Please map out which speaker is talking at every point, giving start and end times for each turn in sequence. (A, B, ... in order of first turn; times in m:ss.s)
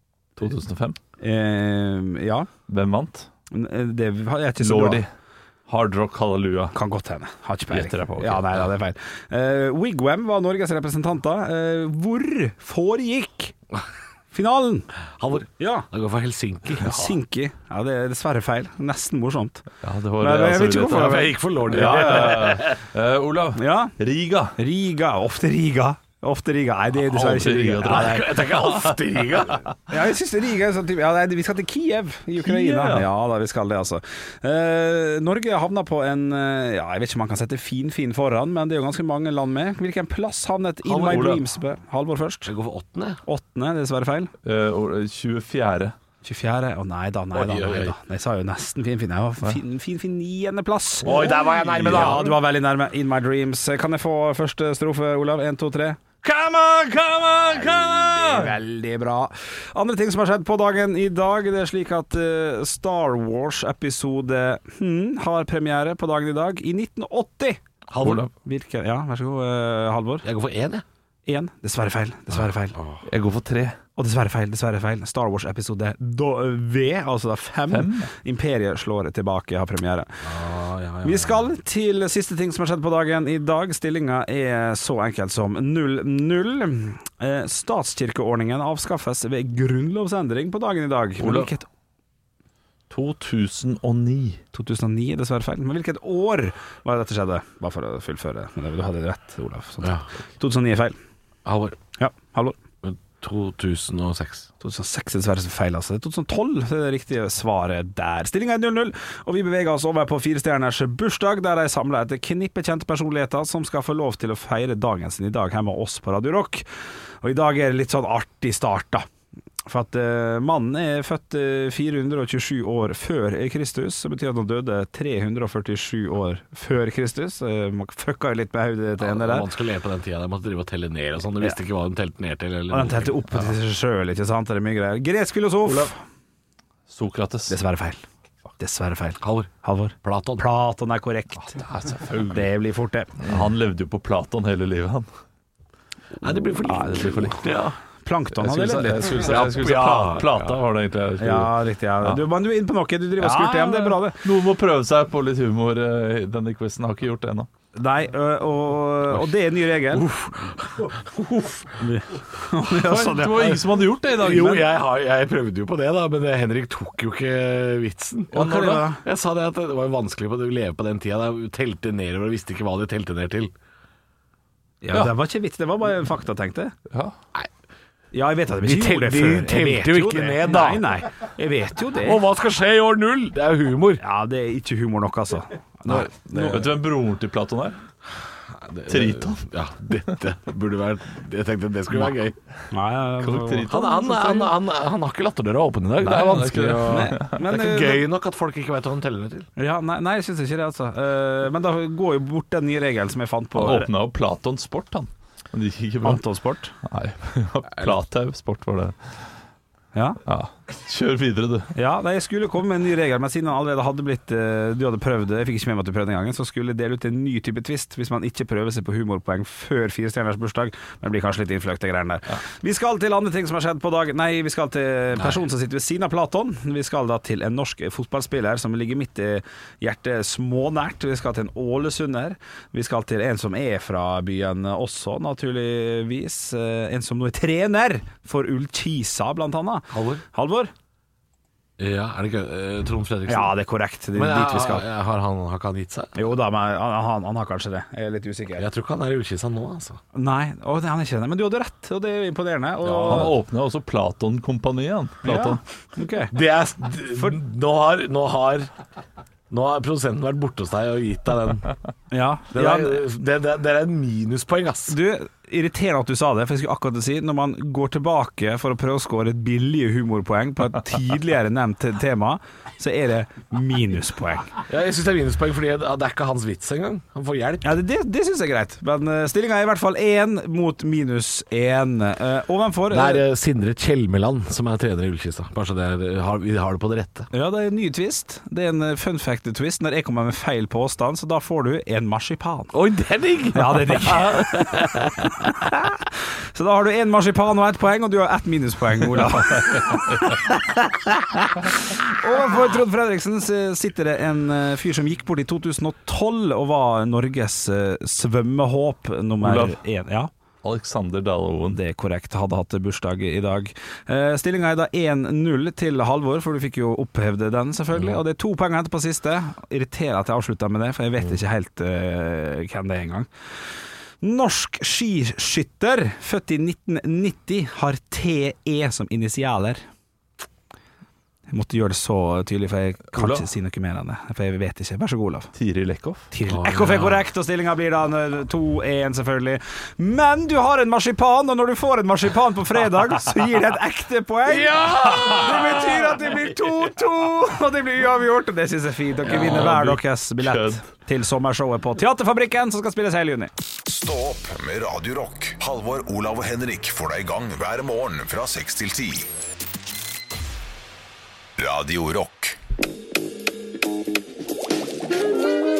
0:00.4-0:01.0 A
0:01.2-0:02.5 B
0:02.7-0:03.3 A
0:03.5-0:05.0 B
0:04.6-0:05.1 A
0:05.7-0:06.7 A
0:06.7-0:13.5 B
0:07.7-0:08.4 A
0:14.3-0:14.9 B
0:15.2-0:17.1 C
0:15.6-0:15.8 B
0:16.7-0:19.6 B
0:19.8-0:24.5 A
0:20.2-0:22.5 B
0:20.8-0:22.8 C
0:23.6-0:23.9 B
0:24.6-0:28.4 B
0:27.1-0:29.6 A
0:27.8-0:29.7 C
0:29.9-0:42.5 B
0:32.4-0:33.1 A
0:40.8-0:41.4 A
0:42.4-0:43.2 C
0:43.2-0:44.3 B
0:44.4-0:45.9 A
0:46.2-0:51.2 B
0:47.3-0:47.9 C
0:51.0-0:52.4 C
0:51.1-0:52.3 A
0:51.8-0:56.0 B
0:56.2-0:58.5 A
0:57.5-0:58.1 C
0:58.2-1:07.6 B
1:07.9-1:08.2 C
1:08.0-1:08.3 A
1:08.3-1:10.2 B
1:10.2-1:10.8 C
1:11.2-1:12.7 B
1:12.7-1:13.0 C
1:13.0-1:13.8 A
1:14.0-1:20.2 B
1:17.7-1:18.1 A
1:20.2-1:21.5 C
1:21.0-1:31.7 B
1:31.2-1:31.5 A
1:32.9-1:34.4 A
1:34.5-1:41.0 B
1:41.4-1:41.8 C
1:42.0-1:42.6 B
1:42.8-1:44.5 C
1:44.6-1:56.6 B
1:57.2-1:59.0 B
1:59.6-2:09.5 B
2:09.0-2:13.5 C
2:12.7-2:15.9 B
2:16.9-2:17.6 A
2:17.5-2:18.0 B
2:18.6-2:21.6 B
2:19.2-2:19.5 C
2:20.0-2:20.4 C
2:21.4-2:22.5 A
2:22.3-2:23.2 B
2:23.2-2:25.1 A
2:26.2-2:27.8 C
2:26.6-2:27.4 A
2:28.0-2:29.3 B
2:28.4-2:32.2 A
2:28.6-2:30.6 C
2:31.2-2:34.2 B
2:33.2-2:37.5 A
2:37.8-2:40.1 B
2:39.9-2:41.8 C
2:41.8-2:43.6 B
2:42.7-2:44.7 A
2:44.1-2:53.5 C
2:48.3-2:49.0 B
2:54.8-2:56.7 B
2:56.9-2:57.1 A
2:58.1-3:02.2 B
2:58.6-3:00.9 C
3:02.0-3:04.0 C
3:04.0-3:06.7 B
3:05.9-3:06.7 C
3:06.5-3:07.8 A
3:08.5-3:12.4 C
3:08.9-3:09.5 A
3:12.7-3:13.7 B
3:13.2-3:14.5 A
3:13.7-3:19.5 C
3:16.0-3:17.4 A
3:16.9-3:18.0 B
3:19.6-3:23.9 B
3:23.5-3:29.2 A
3:26.0-3:26.7 B
3:30.2-3:31.7 A
3:31.7-4:00.7 B
3:59.9-4:00.2 C
4:01.8-4:03.5 C
4:03.3-4:04.8 B
4:04.1-4:06.2 C
4:06.2-4:08.6 B
4:08.6-4:10.0 C
4:10.1-4:13.3 B
4:12.8-4:13.3 C
4:13.0-4:15.6 A
4:15.2-4:16.3 B
4:16.3-4:18.7 C
4:17.1-4:17.4 B
4:19.5-4:21.7 C
4:22.1-4:23.0 B
4:22.5-4:25.0 C
4:24.9-4:34.5 B
4:34.7-4:37.8 C
4:37.6-4:43.2 B
4:42.9-4:47.3 C
4:47.3-4:52.7 B
4:52.7-4:55.3 C
4:53.5-4:54.8 B
4:55.4-4:56.0 B
4:56.5-5:10.3 B
5:09.4-5:09.8 A
5:10.6-5:11.8 A
5:11.7-5:23.3 B
5:24.2-5:29.8 B
5:31.5-5:35.5 B
5:33.1-5:33.4 A
5:35.5-5:36.3 A
5:36.3-5:53.5 B
5:36.5-5:37.2 C
5:44.5-5:45.8 C
5:44.7-5:45.9 A
5:49.2-5:50.8 A
5:53.8-5:59.3 D
6:01.6-6:02.6 D